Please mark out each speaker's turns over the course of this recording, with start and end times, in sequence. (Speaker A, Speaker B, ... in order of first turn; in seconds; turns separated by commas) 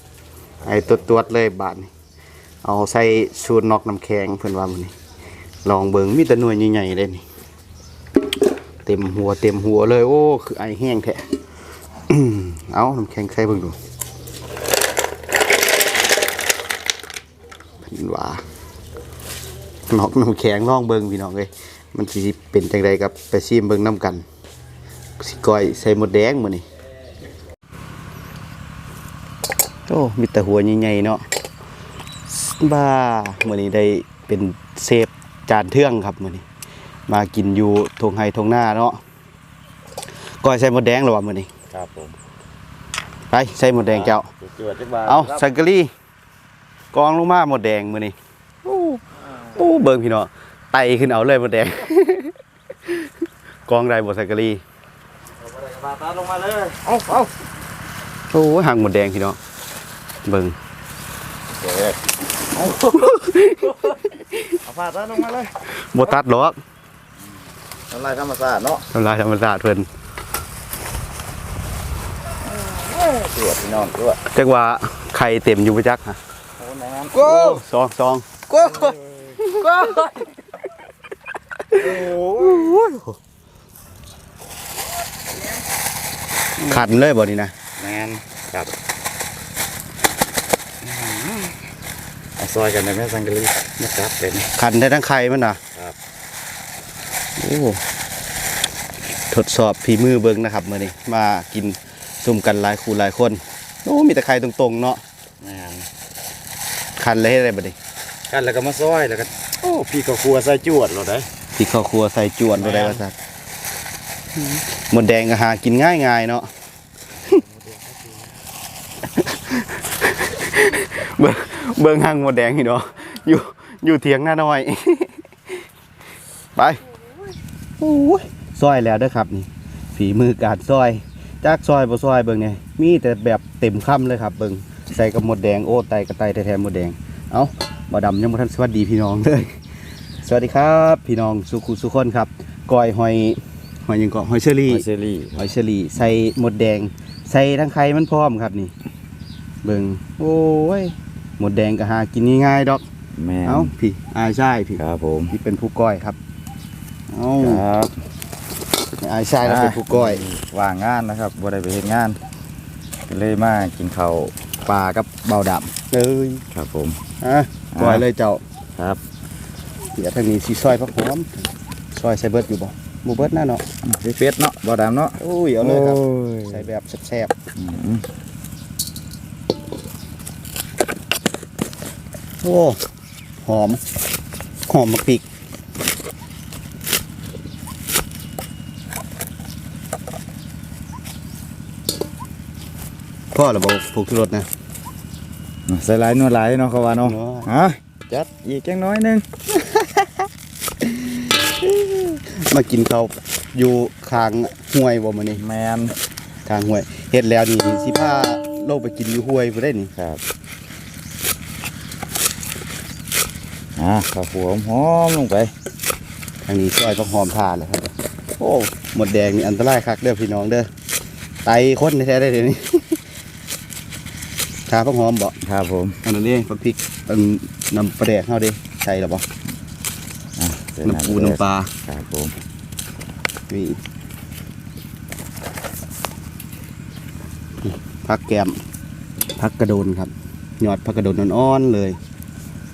Speaker A: 0.6-1.9, Speaker A: 2.6-4.9, Speaker A: 5.6-7.2, Speaker A: 8.8-11.3, Speaker A: 12.1-13.8, Speaker A: 17.8-18.4, Speaker A: 19.9-24.2, Speaker A: 25.2-26.6, Speaker A: 29.9-31.2, Speaker A: 32.3-36.5, Speaker A: 37.1-39.0, Speaker A: 40.4-41.5, Speaker B: 41.7-42.1, Speaker A: 43.3-44.3, Speaker B: 43.8-45.5, Speaker A: 45.1-45.9, Speaker A: 46.9-52.3, Speaker A: 53.7-54.6, Speaker B: 55.4-57.3, Speaker A: 58.3-59.4, Speaker A: 60.2-60.6, Speaker B: 61.5-63.0, Speaker A: 62.7-64.6, Speaker B: 64.7-65.6, Speaker A: 65.7-66.6, Speaker B: 67.9-68.9, Speaker A: 68.9-69.9, Speaker B: 72.4-74.2, Speaker A: 74.3-76.2, Speaker B: 76.6-77.6, Speaker A: 77.1-80.1, Speaker B: 78.5-80.2, Speaker B: 81.7-83.0, Speaker A: 82.5-83.0, Speaker A: 86.6-87.5, Speaker B: 87.8-88.8, Speaker B: 90.8-91.6, Speaker B: 92.4-94.5, Speaker A: 94.6-95.6, Speaker A: 97.4-97.8, Speaker A: 99.3-105.0, Speaker B: 105.4-105.9, Speaker A: 107.0-107.8, Speaker B: 108.3-111.3, Speaker A: 111.6-113.2, Speaker B: 112.5-113.0, Speaker A: 114.4-116.5, Speaker B: 117.3-118.3, Speaker A: 119.1-125.6, Speaker A: 126.6-126.8, Speaker A: 127.8-139.6, Speaker A: 140.2-144.8, Speaker B: 144.7-145.5, Speaker A: 145.4-148.7, Speaker A: 149.6-152.8, Speaker B: 153.2-153.7, Speaker A: 153.4-156.2, Speaker B: 154.8-155.3, Speaker A: 157.1-157.7, Speaker B: 157.4-157.9, Speaker A: 159.0-160.2, Speaker B: 159.4-162.2, Speaker B: 163.1-165.7, Speaker A: 165.9-166.4, Speaker B: 166.5-167.0, Speaker A: 167.2-168.4, Speaker B: 167.7-168.0, Speaker A: 170.0-173.6, Speaker B: 173.8-176.7, Speaker A: 175.2-177.3, Speaker B: 177.6-178.1, Speaker A: 182.4-182.8, Speaker A: 183.4-183.8, Speaker A: 184.7-185.2, Speaker A: 193.3-194.5, Speaker B: 195.7-200.1, Speaker A: 197.1-197.5, Speaker A: 202.2-205.4, Speaker B: 205.4-206.0, Speaker A: 206.4-209.9, Speaker B: 210.0-210.2, Speaker B: 213.8-215.5, Speaker A: 216.4-220.7, Speaker A: 221.4-223.0, Speaker A: 224.7-225.4, Speaker B: 225.4-226.0, Speaker A: 226.0-229.2, Speaker B: 230.4-232.3, Speaker A: 230.8-231.7, Speaker A: 233.5-233.8, Speaker A: 237.6-238.6, Speaker A: 239.4-242.0